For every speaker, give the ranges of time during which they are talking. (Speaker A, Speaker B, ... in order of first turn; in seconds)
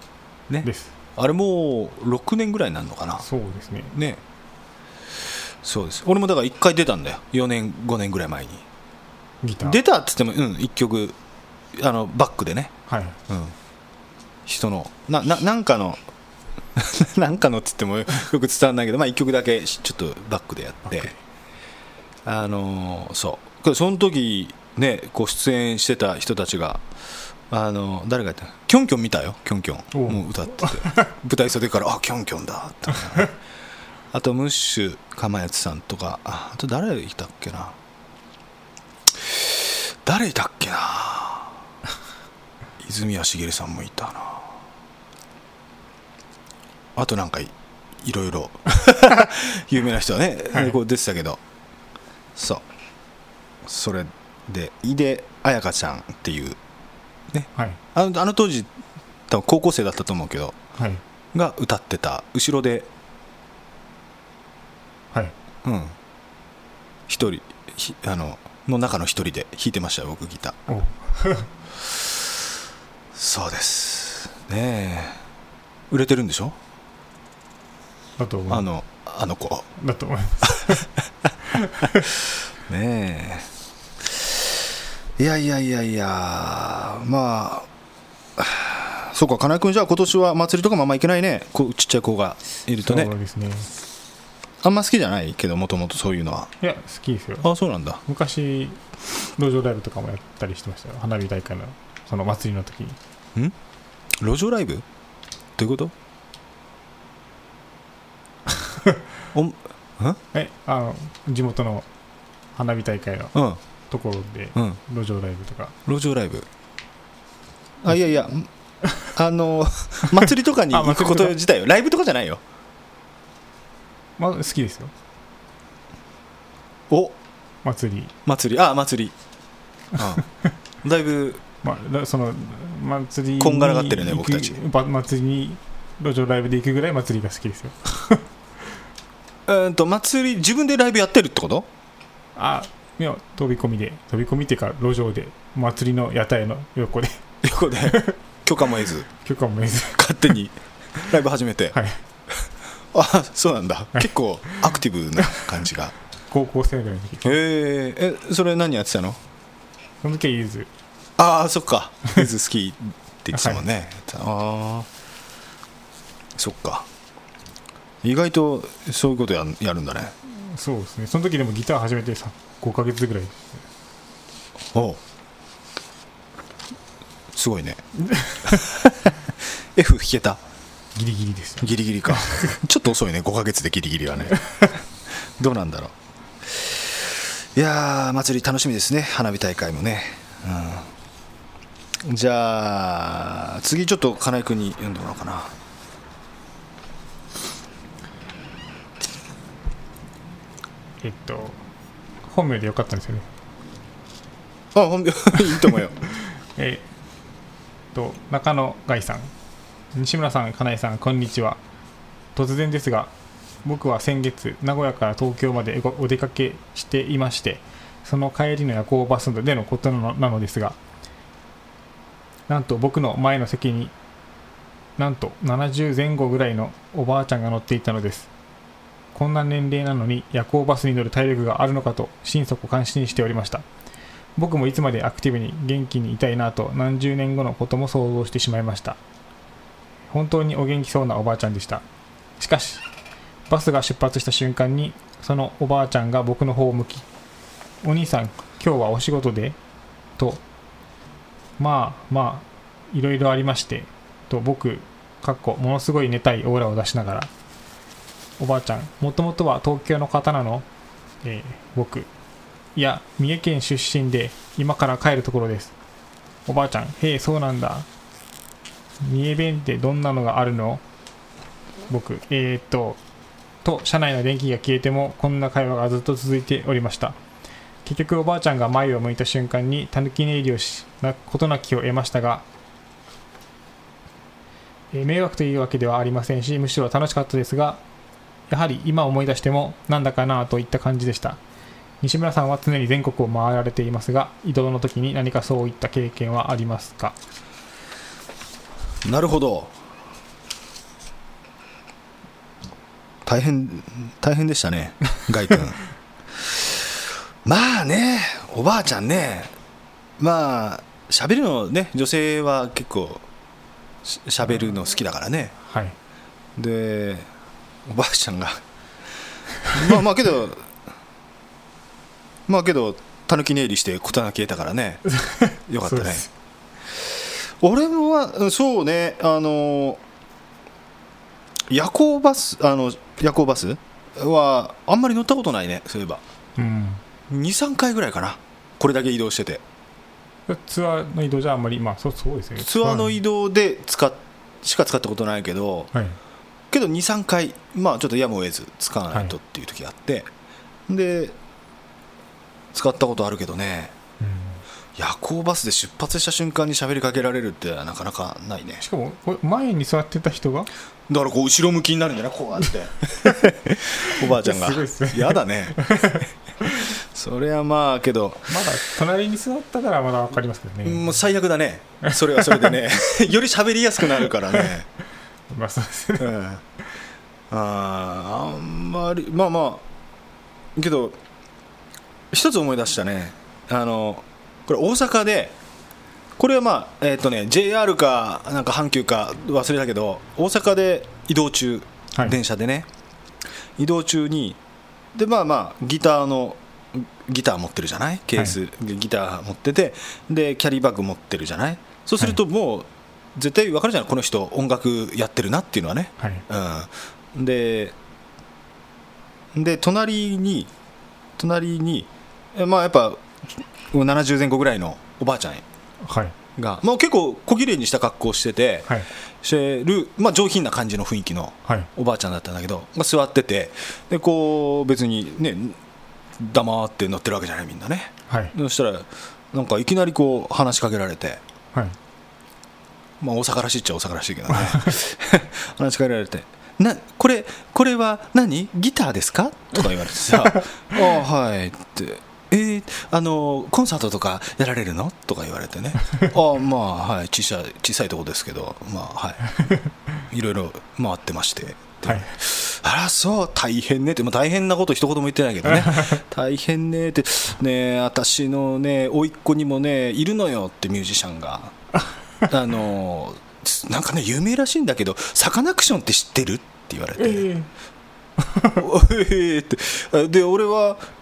Speaker A: 0.5-3.2, 3.9-4.2, 5.6-8.6, 9.6-11.2, 11.7-12.7, 13.3-13.5, 14.4-16.0, 16.7-21.1, 22.2-26.8, 27.5-33.3, 34.1-37.8, 39.2-41.6, 42.8-44.5, 47.0-51.4, 52.4-52.6, 53.6-56.6, 57.3-58.7, 59.3-60.5, 61.3-62.9, 65.6-65.9, 67.1-70.6, 71.8-72.3, 73.1-75.2, 75.9-76.6, 78.5-79.7, 80.4-81.3, 82.2-83.5, 84.0-84.5, 85.2-87.7, 88.3-93.1, 94.6-96.5, 97.4-98.0, 104.2-104.8, 105.6-105.9, 109.3-110.2, 113.3-113.6, 115.8-116.5, 117.8-118.5, 119.1-122.4, 126.9-127.2, 128.2-129.1, 129.9-130.2, 130.8-131.4, 133.4-134.6, 139.4-141.7, 147.4-149.1, 149.9-151.7, 152.9-155.9, 157.2-159.2, 161.2-164.9, 166.3-166.9, 168.0-170.1, 174.7-175.0, 177.3-177.8, 178.4-180.4, 181.6-184.4, 185.4-190.9, 192.0-195.5, 204.7-205.9, 299.1-299.7, 303.2-305.8, 306.4-309.5, 310.2-313.2, 314.0-315.5, 316.6-317.3, 317.9-318.6, 319.7-320.7, 322.5-325.0, 325.7-326.2, 326.9-330.0, 331.7-336.2, 337.3-339.6, 342.6-345.9, 346.7-350.3, 350.9-351.4, 352.7-353.9, 354.9-358.8, 361.1-368.7, 370.8-374.9, 376.2-376.6, 377.5-379.8, 380.8-381.2, 382.3-385.6, 386.4-392.9, 393.8-394.6, 395.1-407.9, 409.5-410.7, 411.4-413.2, 413.9-415.6, 416.6-418.9, 419.4-425.8, 426.4-431.4, 433.2-449.4, 450.3-461.7, 462.5-467.5, 468.7-471.0
Speaker B: 0.6-0.9, 3.2-3.9, 9.4-9.8, 12.9-13.2, 20.9-21.1, 29.9-31.1, 57.5-57.8, 60.8-61.0, 70.7-71.5, 78.2-78.7, 79.8-80.9, 81.5-82.1, 92.8-93.7, 96.6-97.5, 98.0-98.8, 99.4-103.0, 108.5-109.0, 110.3-111.8, 112.5-113.3, 113.9-115.7, 120.2-121.3, 124.2-124.9, 127.6-128.1, 131.6-138.2, 142.3-147.2, 147.8-148.2, 149.1-150.1, 151.7-152.0, 153.9-154.7, 156.3-157.4, 160.0-160.7, 163.3-163.6, 170.3-173.6, 178.1-178.6, 180.9-182.5, 184.3-184.7, 201.0-201.6, 202.2-203.3, 205.4-206.8, 207.9-209.3, 209.9-211.6, 212.3-213.1, 213.6-220.8, 222.5-223.9, 225.0-228.3, 229.1-233.7, 234.4-239.0, 240.1-241.8, 242.4-242.8, 243.5-247.1, 247.8-249.6, 251.6-257.3, 258.4-260.6, 261.2-262.1, 262.7-265.7, 266.4-267.9, 269.0-270.8, 271.9-273.0, 273.6-277.2, 277.8-282.4, 284.9-287.8, 288.5-291.4, 292.0-297.2, 315.6-315.9, 325.1-326.3, 336.6-337.0, 340.5-343.2, 345.9-346.2, 354.2-354.6, 358.8-360.7, 364.0-366.9, 368.5-371.2, 372.0-372.8, 375.5-376.3, 406.2-406.4, 416.0-416.3, 428.3-428.5, 434.5-434.9, 449.6-449.9, 452.0-452.3, 455.6-456.2, 467.2-467.7, 468.4-468.8